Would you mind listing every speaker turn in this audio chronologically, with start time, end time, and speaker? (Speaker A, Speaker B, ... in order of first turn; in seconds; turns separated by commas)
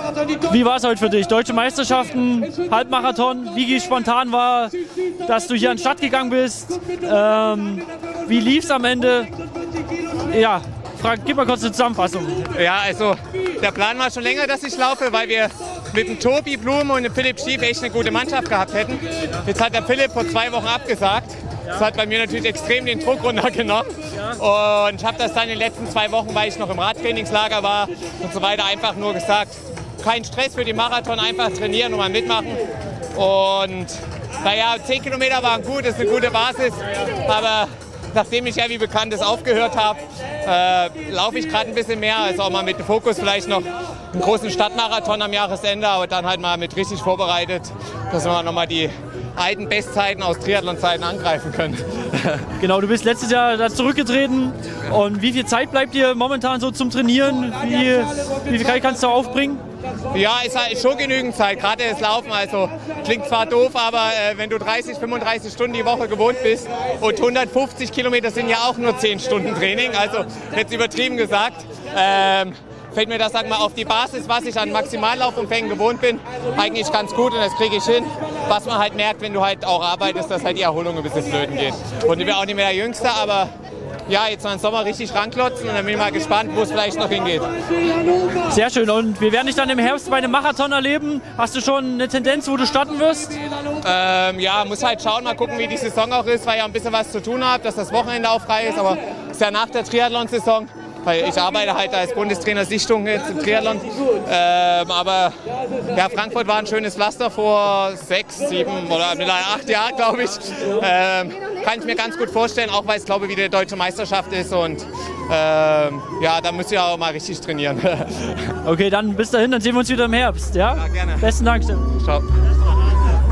Speaker A: 0.4-9.3, Speaker A: 10.2-12.5, Speaker B: 12.5-32.6, Speaker B: 33.1-52.5, Speaker A: 52.6-59.6, Speaker B: 60.1-83.5, Speaker B: 84.1-87.5, Speaker A: 88.4-93.4, Speaker B: 93.8-105.3, Speaker B: 105.9-118.5, Speaker A: 118.6-121.9, Speaker B: 120.7-121.3, Speaker B: 121.9-122.3